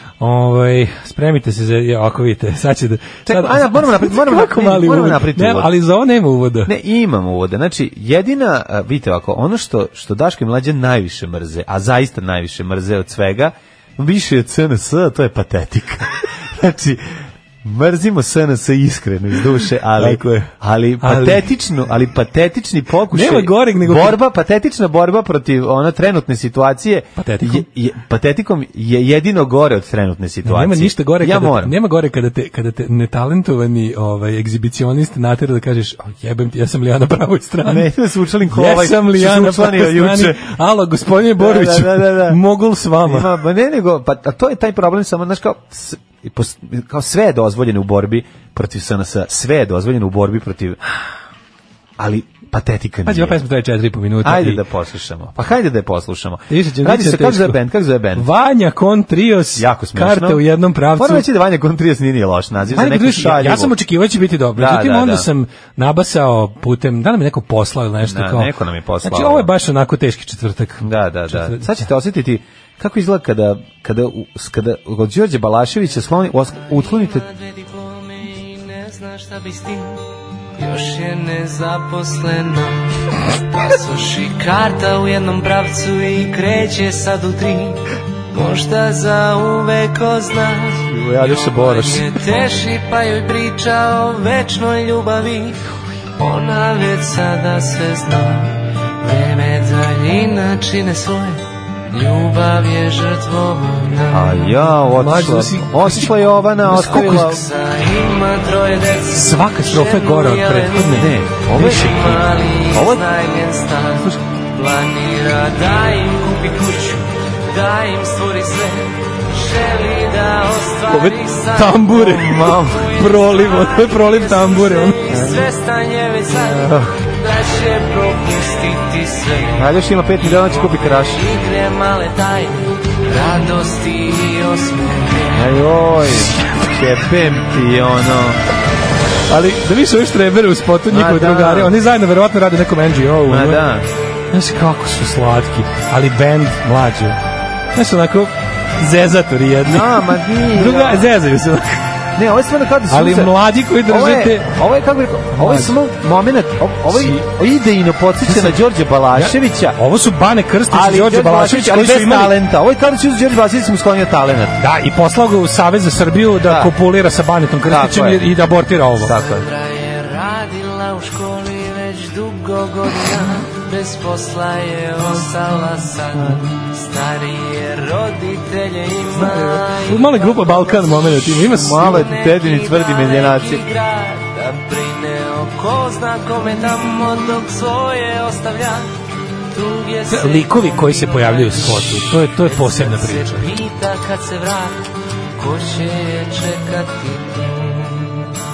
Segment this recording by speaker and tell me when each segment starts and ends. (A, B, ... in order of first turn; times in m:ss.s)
0:00.2-0:06.7 A
0:03.2-0:05.7 B
0:06.6-0:17.0 B
0:17.6-0:31.7 B
0:20.0-0:20.5 A
0:21.0-0:21.5 A
0:23.1-0:24.2 A
0:27.2-0:27.6 A
0:30.4-0:37.9 A
0:37.6-0:40.4 B
0:38.5-0:43.3 A
0:41.4-0:42.4 B
0:43.0-0:50.8 B
0:52.0-0:53.4 B
0:53.0-0:54.6 A
0:54.2-0:58.2 B
0:56.5-0:57.6 A
0:58.2-1:01.2 A
0:59.6-1:03.7 B
1:02.7-1:08.5 A
1:04.6-1:05.3 B
1:08.0-1:09.5 B
1:09.0-1:11.6 A
1:10.8-1:17.3 B
1:16.7-1:20.0 C
1:20.5-1:23.0 C
1:23.5-1:27.8 C
1:28.3-1:35.6 C
1:30.9-1:32.1 B
1:36.2-1:44.6 C
1:44.1-1:47.4 B
1:44.9-1:47.4 A
1:46.9-1:51.0 C
1:49.1-1:52.0 A
1:50.9-1:53.0 B
1:51.6-2:15.6 C
2:00.9-2:05.0 A
2:01.9-2:02.9 B
2:05.1-2:05.4 B
2:06.4-2:06.9 B
2:09.6-2:11.2 B
2:15.3-2:18.4 B
2:19.3-2:23.6 A
2:20.9-2:21.7 B
2:23.3-2:23.9 B
2:24.3-2:27.2 A
2:27.7-2:31.8 A
2:29.6-2:31.1 B
2:32.2-2:39.8 B
2:32.9-2:34.5 A
2:35.3-2:35.7 A
2:36.9-2:37.3 A
2:38.2-2:38.6 A
2:39.1-2:42.3 A
2:40.7-2:44.6 B
2:44.6-2:49.2 A
2:46.4-2:46.7 B
2:47.6-2:48.3 B
2:49.0-2:49.5 B
2:49.1-3:08.9 C
2:59.3-3:02.1 A
3:01.5-3:03.6 B
3:09.5-3:14.8 C
3:10.1-3:13.5 A
3:15.4-3:18.3 C